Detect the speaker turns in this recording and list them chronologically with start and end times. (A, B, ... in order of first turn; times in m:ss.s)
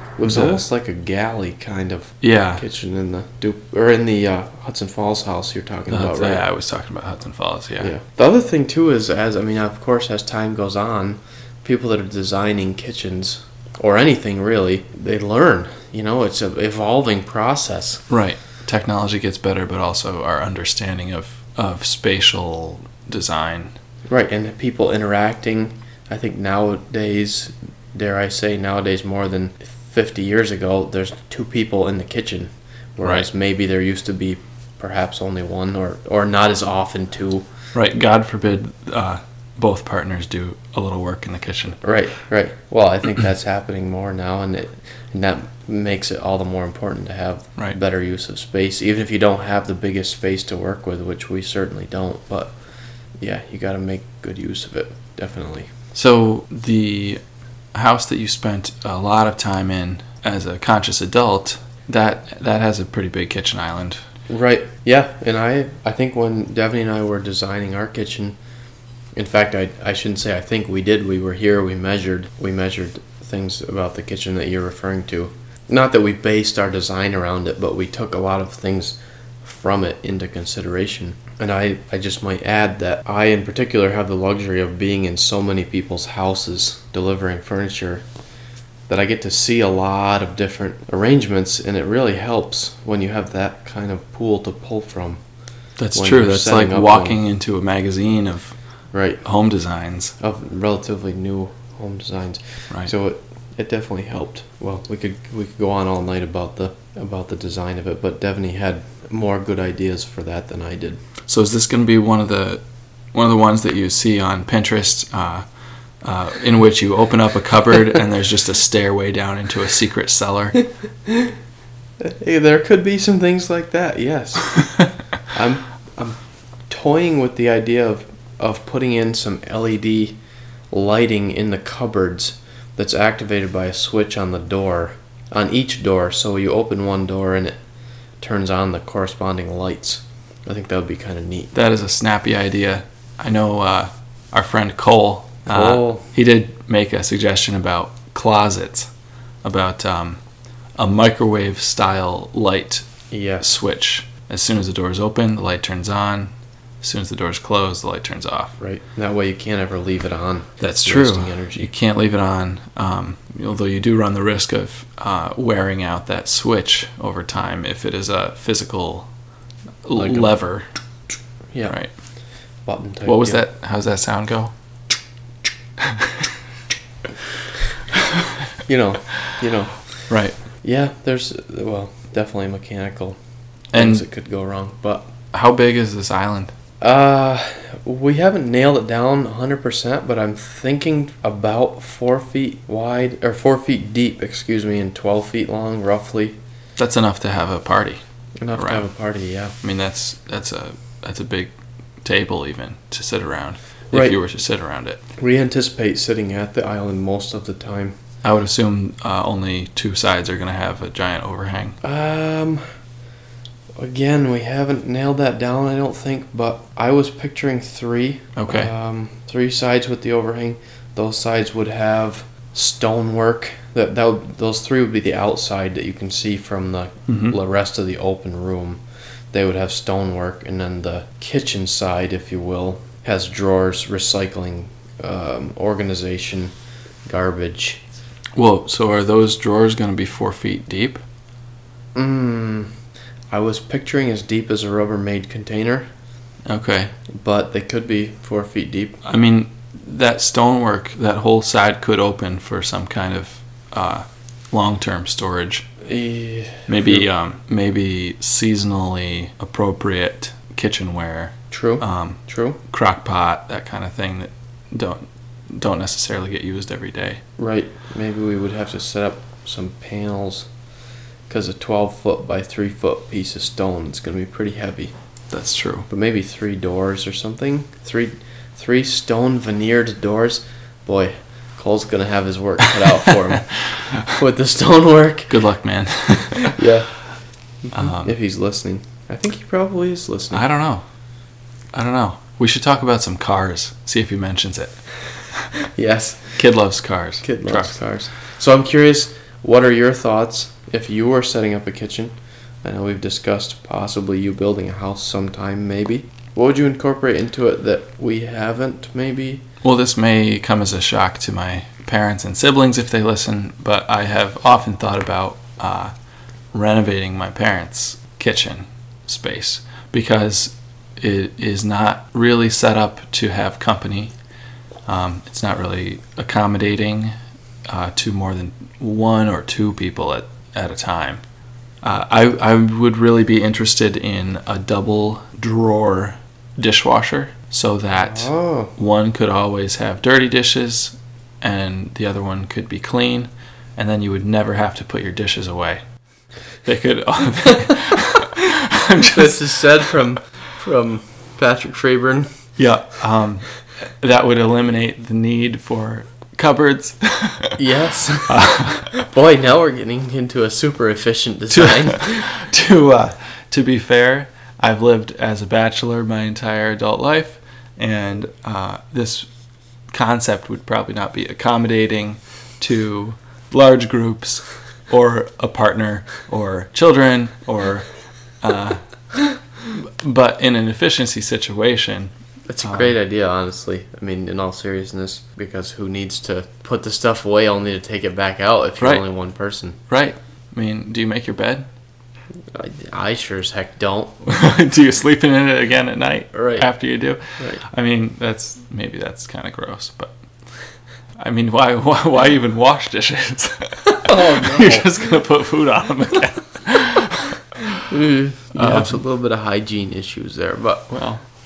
0:00.2-0:06.4 A
0:00.2-0:00.6 B
0:02.2-0:02.6 B
0:05.9-0:07.9 B
0:07.8-0:18.0 A
0:18.1-0:23.7 B
0:24.1-0:37.5 A
0:37.7-0:41.8 B
0:41.8-0:52.6 A
0:53.2-0:55.7 A
0:55.9-0:57.2 B
0:57.7-1:04.0 B
1:04.3-1:08.4 A
1:09.2-1:28.0 A
1:28.9-1:35.2 A
1:35.8-1:38.6 B
1:36.0-1:37.2 A
1:38.9-1:39.2 A
1:39.2-1:40.2 B
1:40.2-1:51.0 A
1:51.3-1:52.6 B
1:53.1-1:55.4 B
1:56.0-2:00.6 B
2:01.1-2:01.3 A
2:02.0-2:10.2 A
2:10.7-2:17.6 A
2:18.2-2:21.5 A
2:21.5-2:28.9 B
2:25.5-2:26.0 A
2:29.4-2:30.2 B
2:30.8-2:32.9 B
2:33.1-2:33.4 A
2:33.4-2:36.3 B
2:36.8-2:38.6 B
2:38.6-2:41.7 A
2:40.6-2:49.1 B
2:49.8-2:50.7 B
2:50.0-2:50.3 A
2:52.7-2:53.4 A
2:53.0-2:54.5 B
2:55.8-2:56.3 B
2:58.7-3:00.1 A
3:00.1-3:00.4 B
3:00.6-3:03.2 A
3:03.7-3:04.0 B
3:03.7-3:05.1 A
3:05.3-3:06.5 B
3:06.8-3:16.4 A
3:16.8-3:18.0 B
3:18.4-3:19.6 A
3:18.6-3:18.9 B
3:19.6-3:25.0 B
3:23.9-3:24.2 A
3:25.2-3:28.0 A
3:28.2-3:31.8 B
3:31.8-3:32.6 A
3:33.8-3:48.8 A
3:38.4-3:38.7 B
3:47.1-3:47.4 B
3:49.3-3:56.5 A
3:57.1-3:57.8 A
3:58.4-4:01.0 B
4:02.0-4:02.7 A
4:03.3-4:05.9 A
4:06.5-4:06.9 B
4:07.1-4:09.0 A
4:09.0-4:15.7 B
4:15.8-4:17.1 A
4:16.7-4:27.2 B
4:21.5-4:22.6 A
4:27.4-4:30.5 A
4:31.3-4:34.9 A
4:35.3-4:35.9 B
4:35.9-4:45.4 A
4:43.8-4:44.0 B
4:45.3-4:46.6 B
4:46.3-4:47.0 A
4:47.6-4:50.4 A
4:47.7-4:48.1 B
4:50.3-4:50.8 B
4:51.7-4:54.8 B
4:55.6-4:56.4 A
4:56.4-4:57.8 B
4:57.2-5:09.4 A
5:09.6-5:15.9 B
5:16.5-5:24.1 B
5:24.9-5:27.2 B
5:27.7-5:31.2 B
5:31.8-5:45.8 B
5:38.0-5:38.7 A
5:46.6-5:49.9 B
5:49.0-5:52.3 A
5:52.6-5:57.6 B
5:57.6-6:02.3 A
5:58.3-5:59.0 B
6:01.5-6:09.3 B
6:09.9-6:17.9 B
6:18.4-6:18.8 B
6:19.6-6:22.1 B
6:22.5-6:29.8 A
6:22.6-6:23.0 B
6:28.8-6:29.0 B
6:29.9-6:31.7 B
6:32.5-6:34.3 A
6:34.2-6:40.2 B
6:36.3-6:36.7 A
6:41.2-6:47.8 B
6:43.9-6:44.9 A
6:47.9-6:50.9 A
6:48.6-6:49.0 B
6:50.9-6:51.2 B